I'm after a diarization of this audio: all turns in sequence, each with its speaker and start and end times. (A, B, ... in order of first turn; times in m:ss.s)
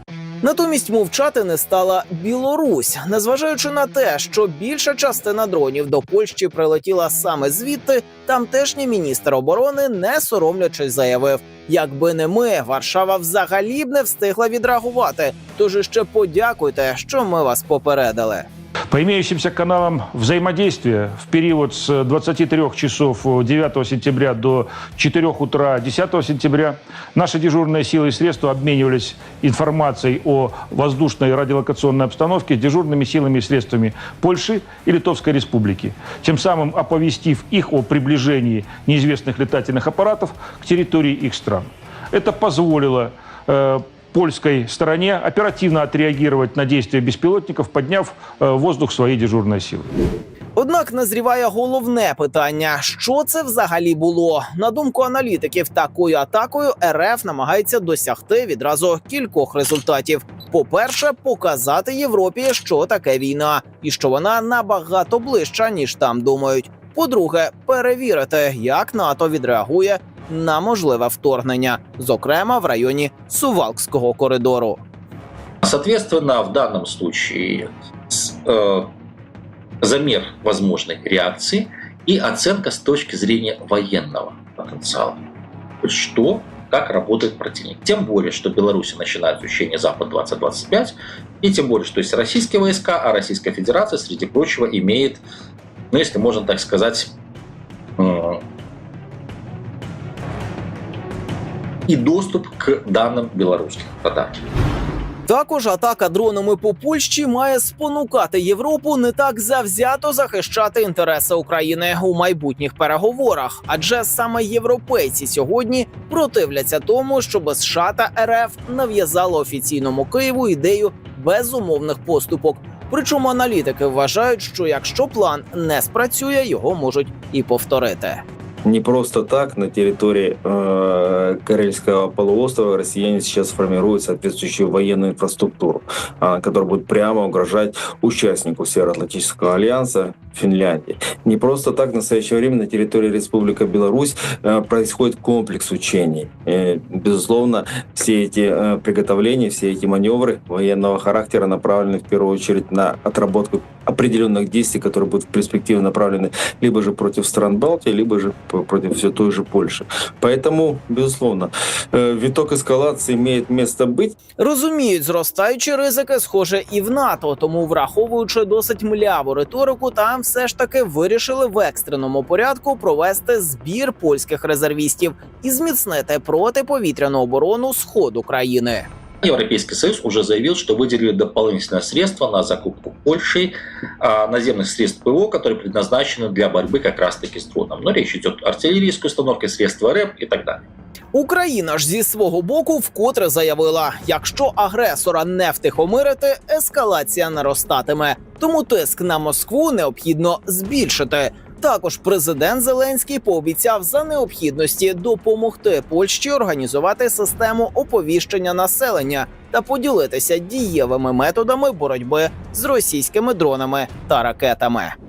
0:00.4-0:18.5 A
0:18.9-0:49.9 B
0:50.6-1:14.8 A
1:15.6-1:18.9 C
1:19.8-1:25.2 C
1:25.8-1:35.2 C
1:35.9-1:37.1 C
1:38.0-1:38.4 C
1:41.9-1:44.4 C
1:45.3-2:08.2 A
2:08.6-2:44.2 D
2:44.4-2:58.9 A
2:59.2-3:10.6 C
3:11.1-3:35.0 A